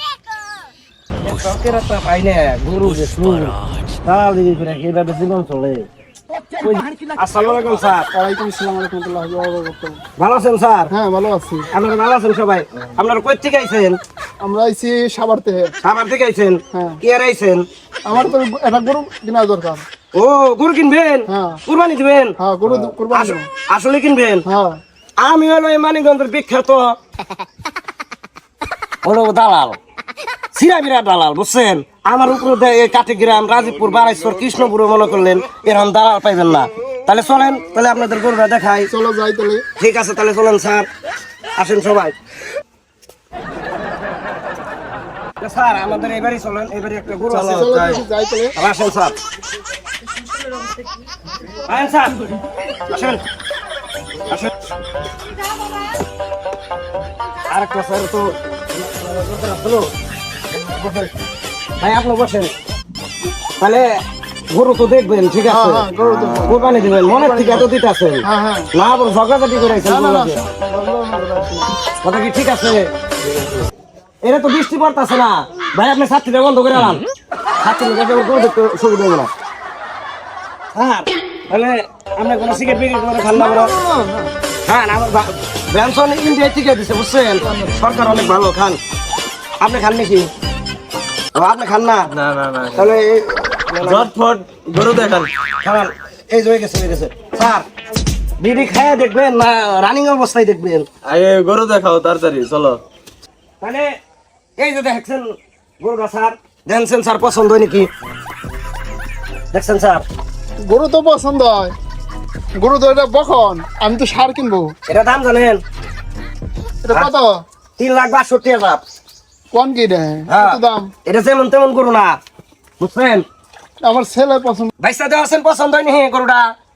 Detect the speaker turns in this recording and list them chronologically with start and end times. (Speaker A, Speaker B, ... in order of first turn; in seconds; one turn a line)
Speaker A: 1.2-5.9
Speaker A: 6.6-8.1
Speaker B: 8.1-10.0
Speaker A: 10.2-10.9
Speaker B: 10.9-11.7
Speaker A: 11.7-14.0
Speaker B: 14.4-15.7
Speaker A: 15.8-17.7
Speaker B: 16.7-17.0
Speaker B: 18.1-19.9
Speaker A: 20.1-22.4
Speaker B: 21.3-21.6
Speaker B: 22.4-23.5
Speaker A: 23.1-24.4
Speaker B: 24.5-24.8
Speaker A: 25.2-27.0
Speaker A: 29.0-29.8
Speaker A: 30.6-38.9
Speaker B: 38.9-39.6
Speaker A: 39.8-40.9
Speaker A: 41.6-42.1
Speaker A: 45.4-47.5
Speaker B: 47.3-48.5
Speaker C: 47.3-48.0
Speaker A: 48.6-49.1
Speaker A: 51.7-52.2
Speaker A: 52.9-53.2
Speaker A: 57.5-59.9
Speaker A: 61.8-62.5
Speaker A: 63.6-63.9
Speaker A: 64.5-65.9
Speaker B: 65.5-67.7
Speaker A: 66.4-68.2
Speaker B: 68.2-68.7
Speaker A: 68.8-70.4
Speaker B: 69.8-71.7
Speaker A: 72.0-72.9
Speaker C: 73.3-73.5
Speaker A: 74.2-77.0
Speaker A: 77.6-79.3
Speaker A: 80.8-83.7
Speaker B: 83.3-84.3
Speaker A: 84.7-88.8
Speaker B: 87.4-87.9
Speaker A: 89.6-90.3
Speaker A: 91.4-92.1
Speaker C: 92.1-92.9
Speaker A: 92.7-94.1
Speaker C: 93.9-95.3
Speaker A: 95.6-97.7
Speaker A: 98.4-100.9
Speaker C: 101.0-102.8
Speaker A: 103.6-103.9
Speaker A: 104.6-107.9
Speaker A: 109.5-110.0
Speaker B: 110.7-111.7
Speaker B: 112.6-114.7
Speaker A: 114.9-115.6
Speaker B: 116.8-117.4
Speaker A: 117.8-118.8
Speaker B: 119.5-120.9
Speaker A: 120.3-122.2
Speaker A: 122.8-123.3
Speaker B: 123.8-124.7
Speaker A: 124.8-126.5